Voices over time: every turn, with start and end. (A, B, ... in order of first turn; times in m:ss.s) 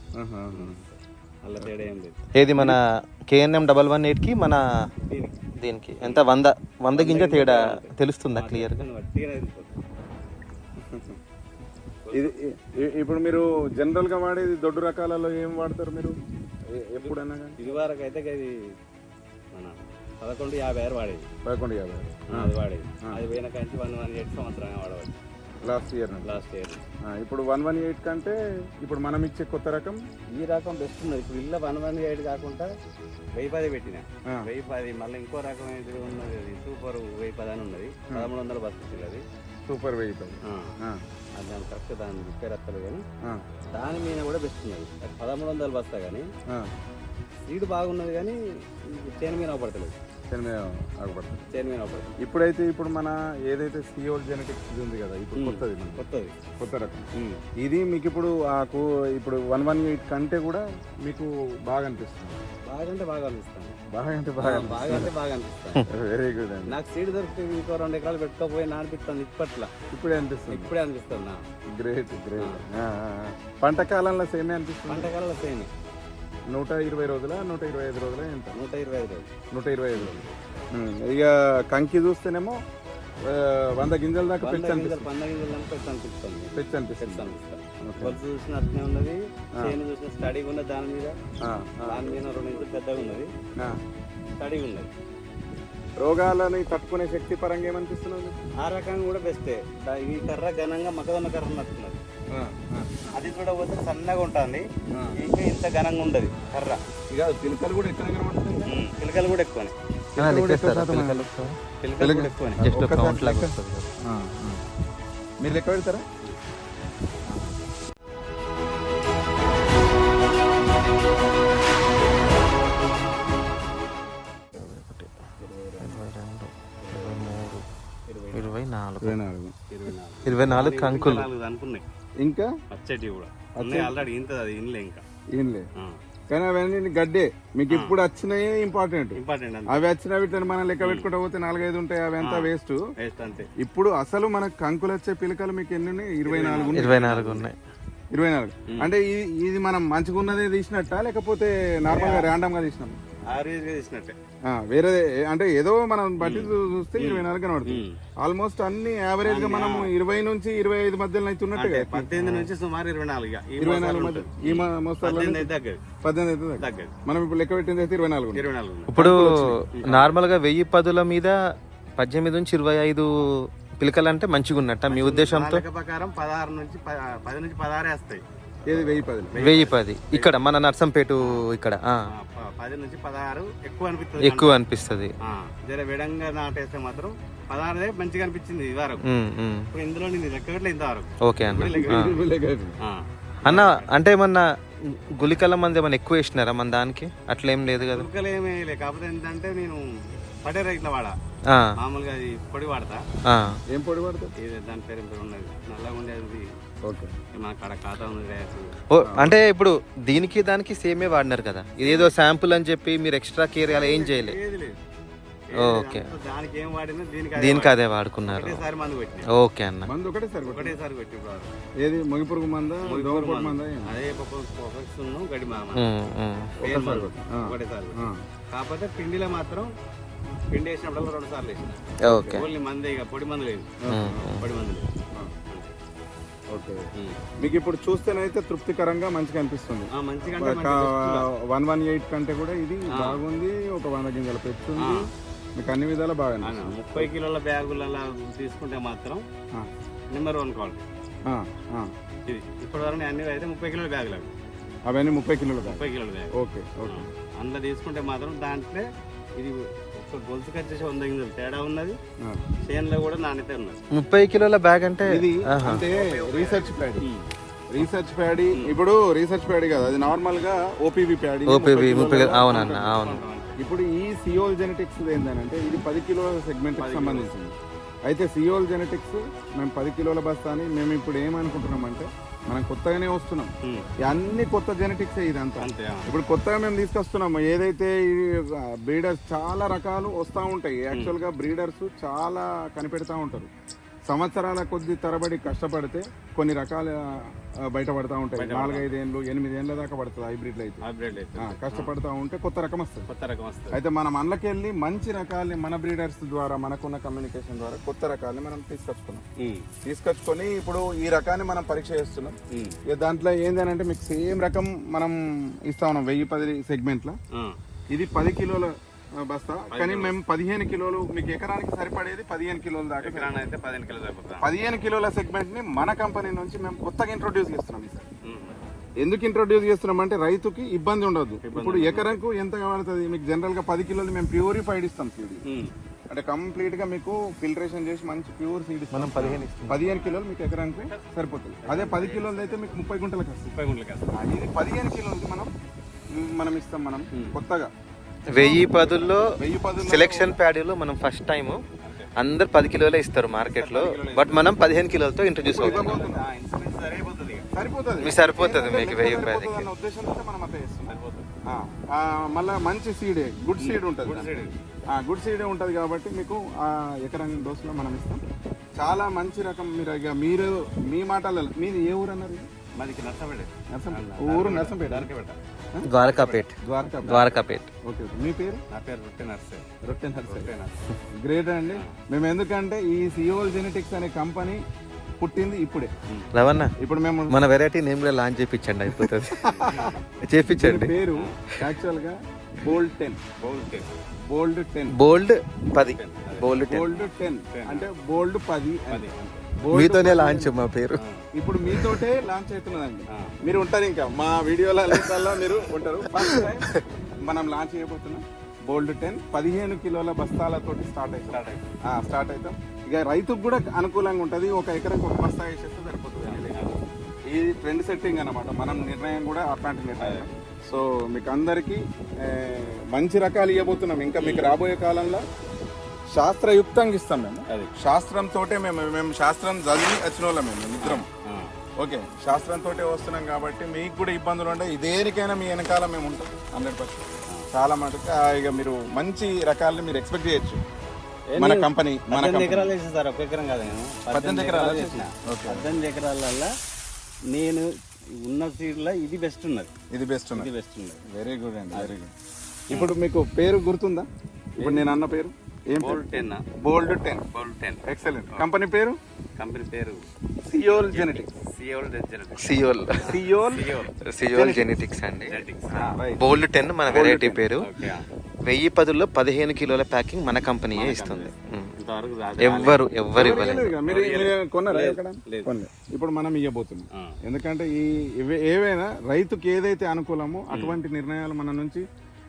0:00.2-0:00.8 A
0:00.5-0:02.2 B
0:02.4-0:04.6 C
0:05.0-0:05.4 B
0:05.6-0:08.8 C
0:06.0-0:06.3 B
0:06.9-0:09.8 B
0:10.8-0:11.2 A
0:12.0-0:12.4 B
0:12.1-0:16.2 A
0:16.7-0:17.6 A
0:17.0-0:18.6 B
0:19.5-0:21.3 B
0:21.4-0:22.5 A
0:22.3-0:25.2 B
0:25.6-0:26.3 A
0:26.2-0:26.8 B
0:27.0-0:30.0 A
0:30.3-0:32.7 B
0:33.4-0:39.2 B
0:39.7-0:41.0 A
0:40.4-0:40.7 B
0:41.4-0:43.0 B
0:43.7-0:46.3 B
0:47.5-0:49.9 B
0:50.3-0:51.5 A
0:51.5-0:52.1 B
0:52.2-0:56.0 A
0:55.4-0:56.3 B
0:56.6-0:57.1 A
0:57.2-0:57.4 B
0:57.6-1:02.4 A
1:02.7-1:03.8 B
1:03.9-1:05.1 A
1:04.4-1:05.8 B
1:05.9-1:06.7 A
1:06.7-1:09.7 B
1:09.9-1:10.7 A
1:10.5-1:11.4 B
1:11.8-1:15.1 A
1:14.9-1:15.7 B
1:16.5-1:18.6 A
1:18.5-1:19.3 B
1:19.5-1:20.2 A
1:19.9-1:20.4 B
1:20.7-1:22.6 A
1:23.3-1:25.1 A
1:24.4-1:31.2 B
1:26.6-1:27.3 A
1:27.8-1:28.2 A
1:31.4-1:32.2 A
1:31.8-1:33.3 B
1:34.4-1:34.9 B
1:36.0-1:38.4 A
1:38.6-1:42.0 B
1:42.3-1:43.1 A
1:43.1-1:46.8 B
1:47.1-1:48.7 A
1:48.7-1:49.7 B
1:50.2-1:51.3 A
1:50.2-1:51.6 C
1:51.8-1:52.6 B
1:52.0-1:54.6 A
1:52.6-1:53.9 C
1:55.4-1:56.0 A
2:04.5-2:05.1 C
2:05.4-2:06.0 B
2:05.8-2:07.6 C
2:06.8-2:07.5 B
2:08.1-2:08.6 B
2:08.3-2:09.2 C
2:09.0-2:09.5 A
2:09.7-2:11.8 B
2:10.2-2:11.3 C
2:12.2-2:12.5 A
2:12.7-2:15.0 B
2:13.6-2:14.0 A
2:15.3-2:15.7 A
2:16.3-2:19.2 A
2:17.7-2:17.9 B
2:19.1-2:19.8 B
2:19.7-2:22.8 A
2:20.8-2:21.1 B
2:22.2-2:23.5 B
2:23.6-2:27.2 A
2:26.2-2:27.5 B
2:26.7-2:27.6 C
2:28.1-2:33.0 A
2:31.9-2:32.3 B
2:33.2-2:34.2 B
2:34.5-2:42.1 A
2:36.2-2:38.0 B
2:39.2-2:39.9 B
2:41.6-2:45.8 B
2:42.2-2:42.5 C
2:43.6-2:45.5 A
2:46.0-2:48.4 A
2:46.6-2:46.9 B
2:48.3-2:48.9 B
2:48.9-2:51.3 C
2:48.9-2:49.5 A
2:49.8-2:50.2 B
2:52.0-2:53.3 C
2:53.8-2:55.6 C
2:54.9-2:58.2 B
2:58.6-2:59.4 A
2:59.3-3:00.5 B
2:59.4-3:01.9 C
3:02.1-3:04.6 B
3:04.2-3:05.1 C
3:05.2-3:09.0 B
3:09.1-3:09.7 C
3:09.7-3:12.1 B
3:11.2-3:12.2 C
3:11.7-3:12.8 A
3:12.8-3:13.9 B
3:13.4-3:14.4 C
3:15.2-3:18.1 C
3:17.9-3:21.1 B
3:21.8-3:23.0 B
3:23.3-3:23.6 C
3:23.7-3:24.3 A
3:24.4-3:26.5 B
3:26.8-3:27.1 A
3:27.3-3:28.7 B
3:28.9-3:34.3 C
3:29.0-3:29.4 A
3:31.8-3:32.1 B
3:33.6-3:34.8 B
3:35.5-3:37.7 B
3:35.6-3:36.0 C
3:37.4-3:38.6 C
3:38.3-3:39.3 B
3:39.3-3:39.9 C
3:39.8-3:40.8 A
3:40.4-3:41.5 B
3:41.8-3:43.9 A
3:42.9-3:45.9 B
3:45.7-3:46.5 C
3:46.6-3:48.2 A
3:46.6-3:49.7 B
3:50.5-3:53.7 B
3:52.0-3:52.4 C
3:52.0-3:52.4 A
3:53.8-3:54.3 A
3:53.9-3:54.4 C
3:54.4-3:54.9 B
3:55.5-3:55.7 B
3:56.5-3:56.8 A
3:56.9-3:57.2 B
3:57.4-4:07.1 A
3:59.9-4:01.3 B
4:02.9-4:03.2 B
4:04.8-4:05.1 B
4:06.4-4:09.2 B
4:10.1-4:10.8 B
4:11.2-4:11.9 A
4:12.3-4:14.3 B
4:14.9-4:15.8 A
4:15.6-4:16.3 B
4:16.4-4:17.0 A
4:16.8-4:18.8 B
4:19.4-4:22.0 B
4:22.6-4:23.8 B
4:23.9-4:25.8 C
4:25.1-4:27.0 A
4:25.6-4:27.3 B
4:27.7-4:32.9 A
4:31.5-4:33.2 C
4:32.7-4:33.6 B
4:33.6-4:37.5 A
4:36.8-4:37.3 B
4:38.0-4:53.5 A
4:45.6-4:46.1 B
4:54.1-4:57.0 A
4:57.7-5:00.8 A
4:58.4-4:58.9 B
5:00.8-5:01.9 B
5:01.4-5:03.0 A
5:03.1-5:03.8 B
5:03.7-5:09.2 A
5:09.4-5:09.6 B
5:09.8-5:12.3 A
5:12.5-5:12.8 B
5:12.9-5:17.1 A
5:17.9-5:23.3 A
5:19.7-5:20.1 B
5:23.0-5:24.5 B
5:24.4-5:28.1 A
5:28.2-5:28.6 B
5:29.0-5:35.4 A
5:31.4-5:32.2 B
5:35.5-5:35.7 B
5:36.1-5:43.4 A
5:38.9-5:39.8 C
5:39.2-5:40.2 B
5:40.7-5:41.1 B
5:41.6-5:42.8 B
5:43.4-5:44.2 B
5:44.2-5:45.5 A
5:46.2-5:47.7 A
5:48.3-5:48.7 A
5:48.3-5:51.6 C
5:48.4-5:49.2 B
5:49.3-5:50.4 A
5:51.8-5:52.1 B
5:52.2-5:55.9 C
5:53.4-5:54.6 B
5:55.5-5:57.5 B
5:55.5-5:56.3 A
5:57.5-6:00.9 A
5:58.0-5:59.7 C
6:00.9-6:01.3 B
6:01.5-6:04.3 A
6:03.6-6:04.5 B
6:04.9-6:08.2 A
6:08.8-6:12.4 A
6:12.8-6:15.4 B
6:13.7-6:15.1 A
6:15.8-6:17.7 C
6:16.0-6:16.4 B
6:16.6-6:17.3 A
6:17.0-6:17.6 B
6:17.8-6:18.6 A
6:18.7-6:19.6 B
6:19.8-6:20.5 A
6:20.3-6:20.8 B
6:21.2-6:24.6 A
6:25.2-6:25.9 A
6:26.3-6:26.7 C
6:26.8-6:27.3 A
6:27.3-6:29.6 C
6:29.0-6:29.9 A
6:29.5-6:30.1 B
6:30.2-6:30.9 C
6:30.5-6:33.2 A
6:33.4-6:33.9 B
6:34.3-6:35.0 A
6:34.9-6:36.9 C
6:35.8-6:37.9 B
6:36.6-6:39.0 A
6:38.9-6:39.5 B
6:39.6-6:40.5 A
6:39.7-6:41.0 C
6:41.0-6:41.3 B
6:41.4-6:56.5 A
6:41.7-6:42.0 C
6:44.9-6:45.5 C
6:46.0-6:46.8 C
6:51.3-6:51.7 B
6:56.3-6:56.8 B
6:57.3-7:05.2 A
7:00.0-7:00.3 B
7:04.2-7:04.5 B
7:06.1-7:11.0 A
7:10.8-7:11.5 B
7:11.8-7:20.6 A
7:21.3-7:26.5 B
7:21.4-7:22.7 A
7:24.1-7:25.7 A
7:27.3-7:27.7 B
7:28.2-7:29.7 B
7:29.9-7:30.5 A
7:30.3-7:31.0 B
7:31.1-7:32.1 A
7:32.7-7:34.1 A
7:34.6-7:35.0 B
7:34.6-7:36.0 A
7:35.8-7:36.4 B
7:36.6-7:37.2 A
7:37.3-7:38.4 B
7:37.8-7:39.0 A
7:39.4-7:40.0 B
7:40.4-7:41.3 A
7:40.7-7:43.9 B
7:42.4-7:43.1 C
7:43.1-7:43.7 A
7:44.1-7:45.4 C
7:44.3-7:44.7 A
7:45.3-7:46.0 B
7:45.8-7:46.2 A
7:46.2-7:47.6 C
7:46.8-7:47.4 A
7:47.6-7:48.0 B
7:48.4-7:51.7 C
7:50.7-7:52.8 B
7:52.4-7:53.8 C
7:53.1-8:01.8 A
7:53.8-7:55.5 B
8:00.5-8:00.8 B